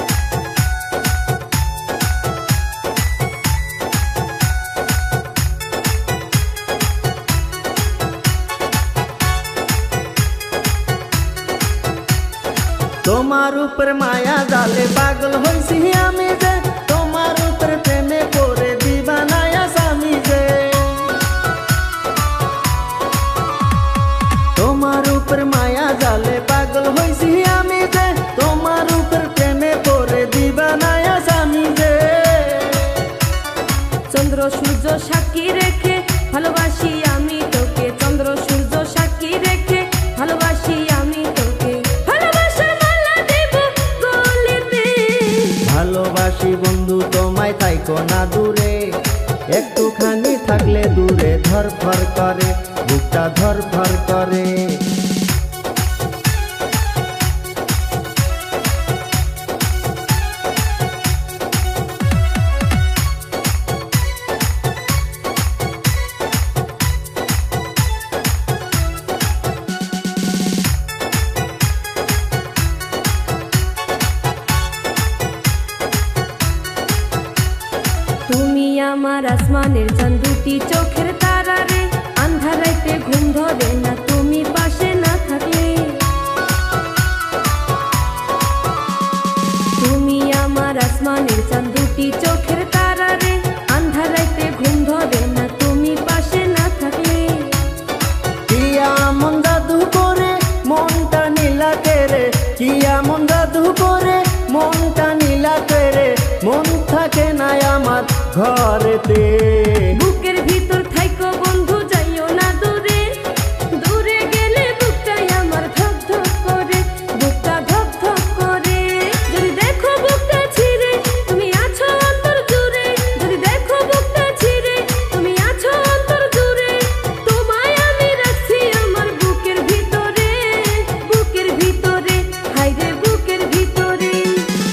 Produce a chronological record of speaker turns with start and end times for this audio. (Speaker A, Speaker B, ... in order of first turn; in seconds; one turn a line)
Speaker A: 13.0-21.3
Speaker A: 24.6-33.1
Speaker B: 34.1-45.6
Speaker A: 45.6-55.0
Speaker B: 78.2-86.1
Speaker B: 89.7-97.7
Speaker A: 98.5-110.0
Speaker B: 109.9-134.6